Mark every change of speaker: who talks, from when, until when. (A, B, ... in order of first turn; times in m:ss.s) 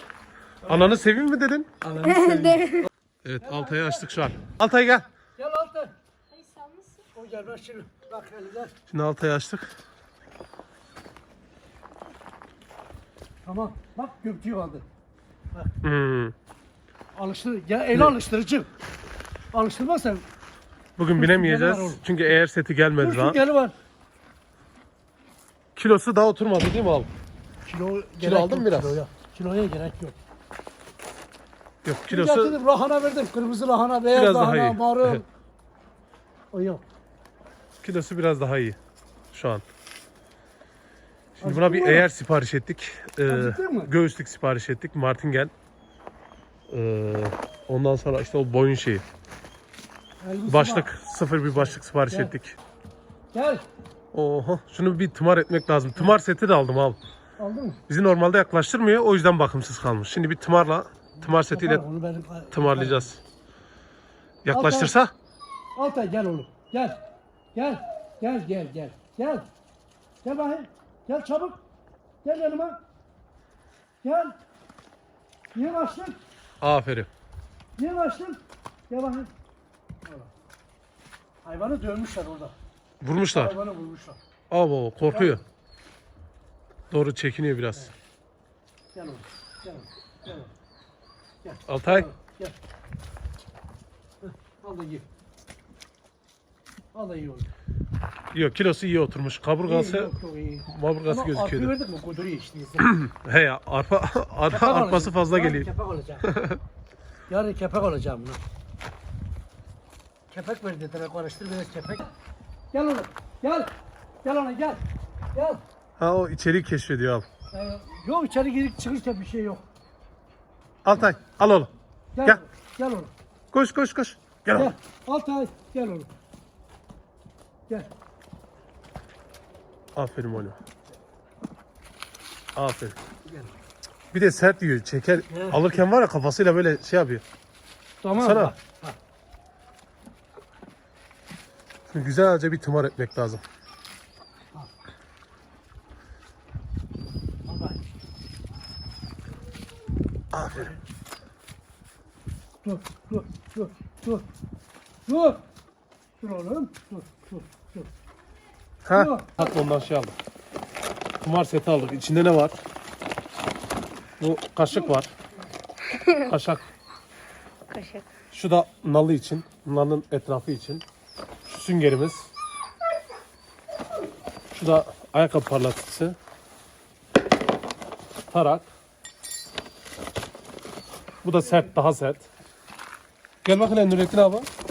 0:00.6-0:05.1 A
0:02.0-0:02.8 B
0:03.4-0:04.3 C
0:05.4-0:06.0 C
0:06.4-0:07.0 B
0:07.1-0:08.7 C
0:08.9-0:09.7 A
0:13.4-0:14.8 C
0:15.8-0:16.3 A
0:17.1-0:18.7 C
0:19.5-0:20.2 C
0:21.0-0:23.4 A
0:21.2-0:22.0 C
0:23.0-0:23.8 C
0:25.8-0:27.1 A
0:27.6-0:30.2 C
0:28.2-0:29.0 A
0:31.8-0:32.6 A
0:32.1-0:35.2 C
0:34.1-0:35.2 A
0:36.5-0:36.8 C
0:37.8-0:38.8 A
0:39.3-0:39.6 A
0:41.4-0:45.5 A
0:41.4-0:42.1 C
0:43.3-0:43.9 C
0:46.7-0:49.0 A
0:50.2-0:50.9 C
0:50.5-0:52.6 A
0:51.6-0:52.3 C
0:53.3-0:53.6 C
0:54.1-0:57.0 A
0:57.4-0:57.8 C
0:57.9-1:01.8 A
1:01.2-1:03.1 C
1:02.5-1:03.2 A
1:04.4-1:05.1 A
1:04.5-1:04.9 C
1:05.7-1:07.0 C
1:07.5-1:09.5 C
1:10.2-1:11.6 C
1:12.2-1:12.8 C
1:14.0-1:14.4 C
1:15.5-1:16.2 C
1:16.6-1:17.1 A
1:17.8-1:19.3 C
1:20.0-1:20.3 C
1:21.4-1:22.5 C
1:23.0-1:23.6 A
1:23.3-1:24.2 C
1:24.5-1:25.4 A
1:25.1-1:25.4 C
1:26.9-1:27.9 A
1:28.9-1:30.5 C
1:31.4-1:32.6 C
1:31.7-1:32.1 A
1:34.2-1:35.1 C
1:36.9-1:37.5 C
1:38.3-1:40.1 A
1:39.6-1:43.0 C
1:40.6-1:41.7 A
1:42.8-1:45.7 A
1:44.5-1:46.3 C
1:46.2-1:46.6 A
1:47.3-1:48.4 C
1:50.3-1:52.1 C
1:52.7-1:53.7 C
1:54.2-1:55.6 C
1:56.0-1:57.2 A
1:57.5-1:59.6 C
2:00.8-2:01.7 A
2:02.1-2:03.1 C
2:03.5-2:04.7 A
2:04.5-2:06.1 C
2:10.0-2:10.6 A
2:12.6-2:13.0 A
2:13.2-2:13.6 C
2:14.1-2:17.2 A
2:15.3-2:15.8 C
2:18.0-2:19.0 C
2:18.2-2:18.5 A
2:21.9-2:23.4 A
2:27.4-2:27.8 C
2:30.3-2:30.7 A
2:30.5-2:30.8 C
2:32.6-2:34.2 C
2:35.0-2:35.4 C
2:36.2-2:37.9 C
2:38.8-2:40.2 A
2:38.9-2:39.5 C
2:41.2-2:42.6 A
2:44.2-2:45.1 A
2:44.7-2:45.5 C
2:46.2-2:46.6 A
2:47.7-2:48.0 B
2:48.3-2:50.8 A
2:51.4-2:52.3 A
2:54.5-2:56.2 A
2:58.3-2:58.7 A
3:01.2-3:02.3 A
3:01.4-3:01.7 C
3:03.4-3:04.5 A